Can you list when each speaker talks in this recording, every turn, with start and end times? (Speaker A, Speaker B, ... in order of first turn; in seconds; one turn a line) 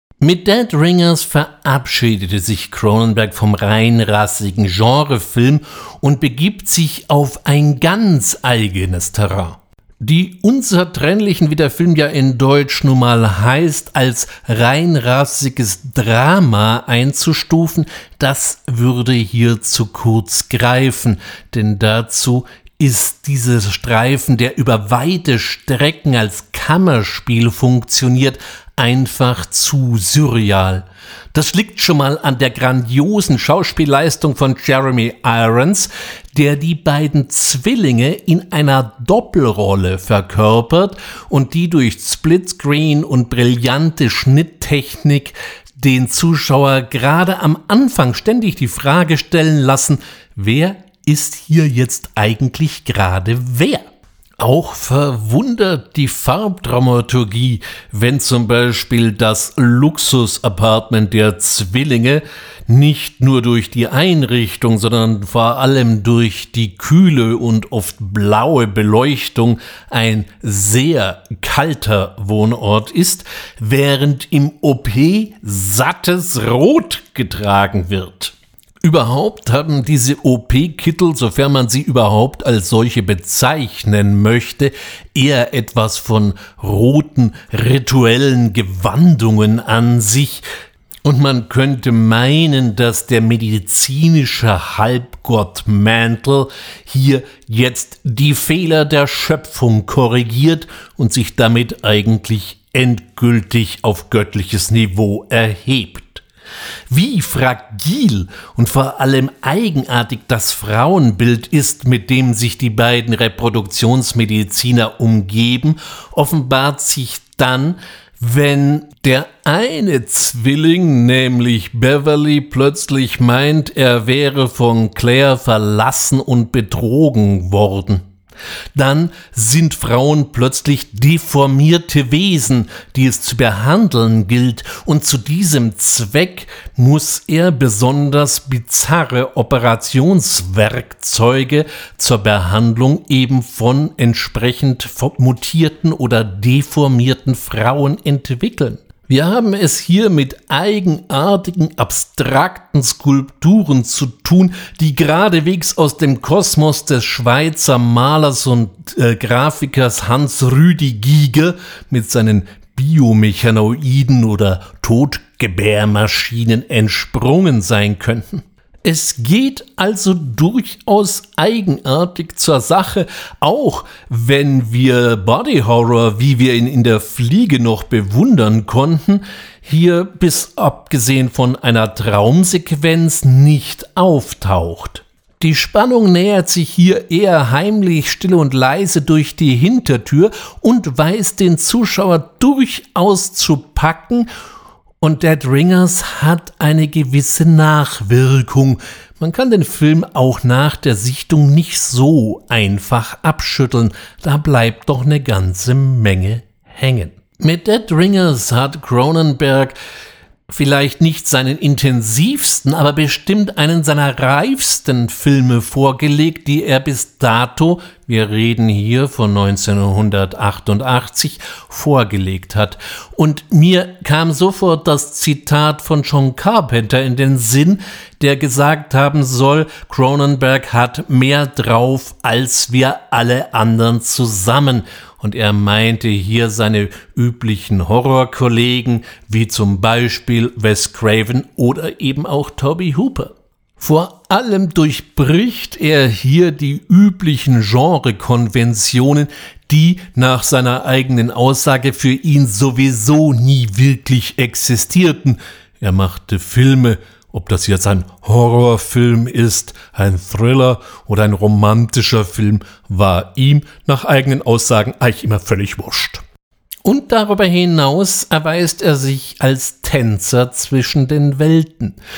Speaker A: 0.2-53.9
Speaker A: 54.4-90.5
Speaker A: 91.0-106.2
Speaker A: 106.9-128.1
Speaker A: 128.8-194.3
Speaker A: 195.0-209.8
Speaker A: 210.5-266.2
Speaker A: 266.8-272.0